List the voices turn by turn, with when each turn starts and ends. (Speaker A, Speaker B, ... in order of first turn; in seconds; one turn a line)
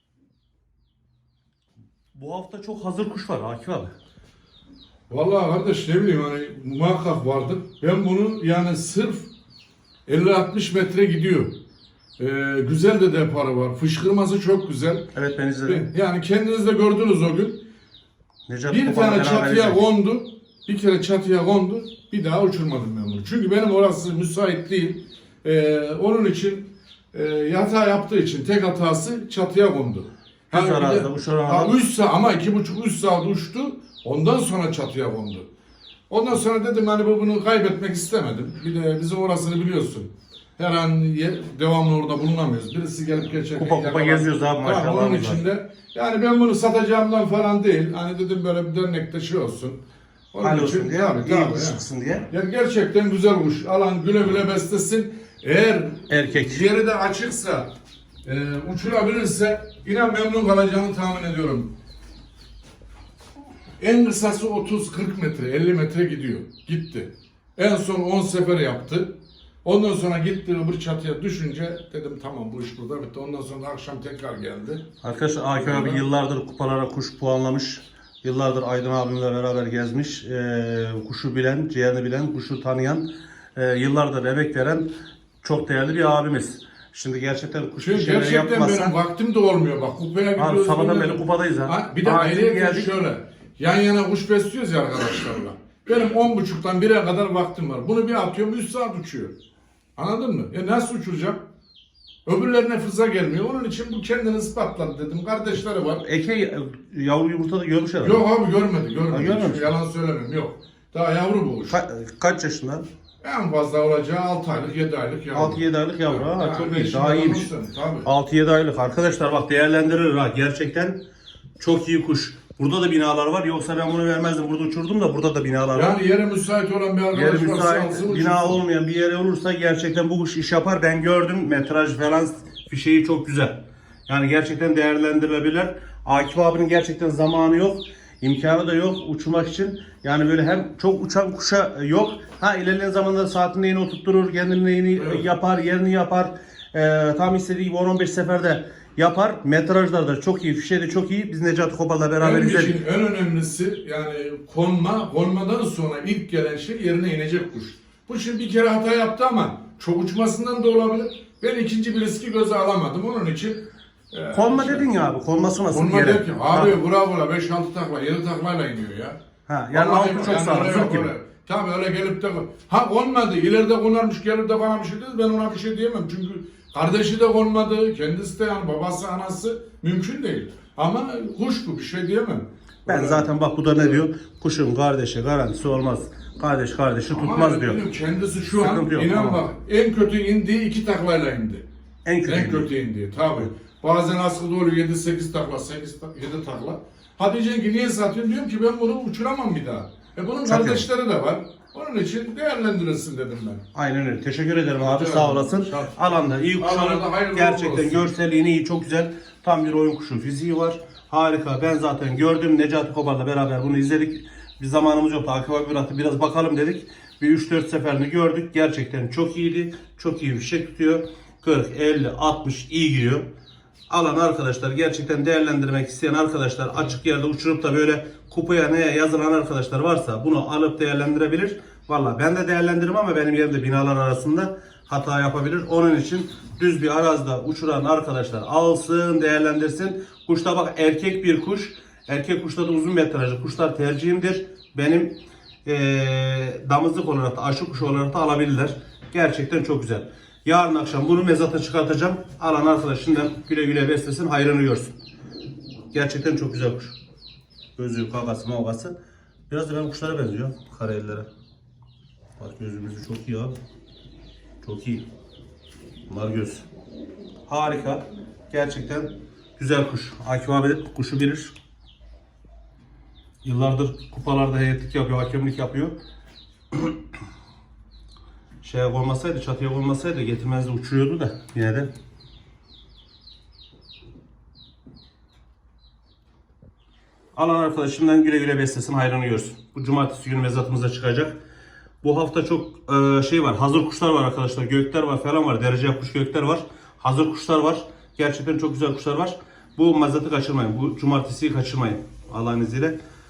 Speaker A: 2.1-3.9
Speaker B: 5.1-9.3
Speaker B: 10.1-11.5
Speaker B: 12.2-15.1
Speaker A: 15.1-15.8
Speaker B: 15.7-17.6
Speaker A: 18.5-19.8
Speaker B: 18.7-35.5
Speaker A: 30.5-31.8
Speaker B: 36.1-49.8
Speaker A: 43.5-45.4
Speaker B: 50.3-57.7
Speaker A: 50.4-52.3
Speaker A: 56.1-56.6
Speaker B: 58.2-61.7
Speaker B: 63.8-74.8
Speaker A: 75.0-83.0
Speaker B: 75.5-76.0
Speaker A: 83.5-84.9
Speaker A: 85.4-88.9
Speaker B: 87.8-99.3
Speaker A: 90.4-92.9
Speaker B: 100.0-101.4
Speaker B: 102.2-106.0
Speaker A: 106.0-108.2
Speaker B: 108.0-111.8
Speaker A: 109.1-109.7
Speaker A: 111.7-112.8
Speaker B: 113.2-118.1
Speaker A: 115.3-117.5
Speaker A: 118.0-121.0
Speaker A: 121.6-125.9
Speaker B: 125.7-128.6
Speaker A: 127.1-133.6
Speaker A: 134.1-152.8
Speaker B: 145.0-145.2
Speaker B: 152.2-164.9
Speaker A: 164.3-166.8
Speaker B: 165.7-169.2
Speaker A: 169.5-171.1
Speaker B: 169.7-183.3
Speaker A: 182.9-187.8
Speaker B: 187.1-191.6
Speaker A: 188.5-189.4
Speaker A: 192.0-192.7
Speaker B: 192.2-203.6
Speaker A: 200.4-200.8
Speaker A: 203.7-223.2
Speaker B: 204.8-205.9
Speaker B: 206.6-208.0
Speaker A: 223.9-245.1
Speaker A: 245.6-254.9
Speaker A: 255.9-256.9
Speaker A: 257.8-258.9
Speaker A: 259.5-261.2
Speaker A: 262.4-263.5
Speaker A: 264.6-265.0
Speaker A: 266.1-266.6
Speaker A: 267.5-271.5
Speaker A: 273.4-275.9
Speaker A: 278.6-281.9
Speaker A: 287.3-291.4
Speaker A: 292.0-302.9